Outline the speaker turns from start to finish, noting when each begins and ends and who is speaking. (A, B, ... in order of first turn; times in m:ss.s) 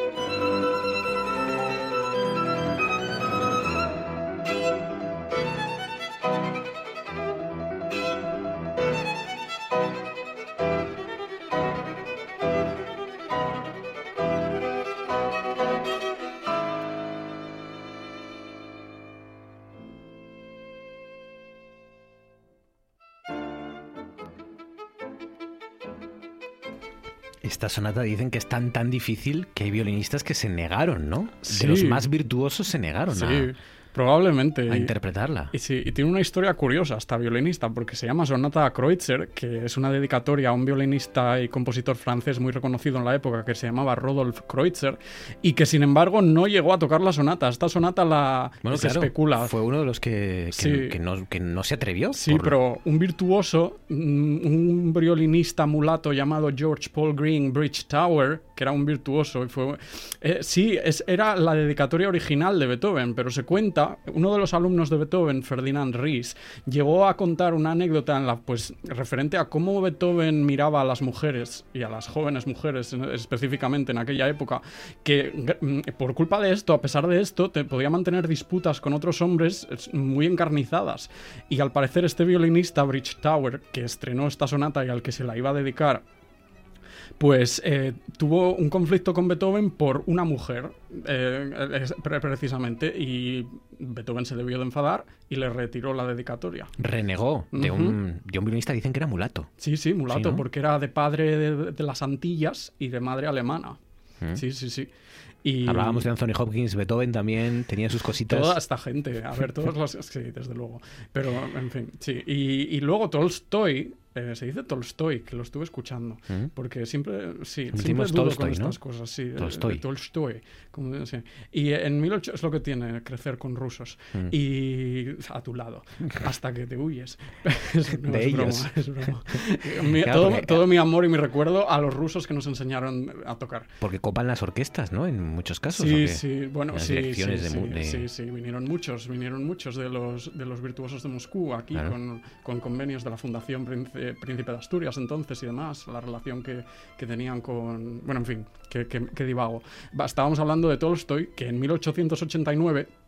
0:27.4-0:33.5 A
0:31.4-0:32.1 B
0:33.1-0:34.9 B
0:34.7-0:35.5 A
0:35.5-0:49.6 B
0:48.6-0:52.6 A
0:50.5-0:51.0 B
0:52.1-1:26.0 B
1:27.2-1:36.7 B
1:36.8-1:40.4 A
1:37.5-1:38.0 B
1:39.6-1:43.8 B
1:44.3-1:46.1 B
1:45.7-1:48.6 A
1:48.2-2:13.7 B
1:57.7-1:58.8 A
1:59.4-1:59.8 A
2:08.0-2:09.4 A
2:10.0-2:10.6 A
2:13.8-2:18.1 A
2:15.7-2:32.9 B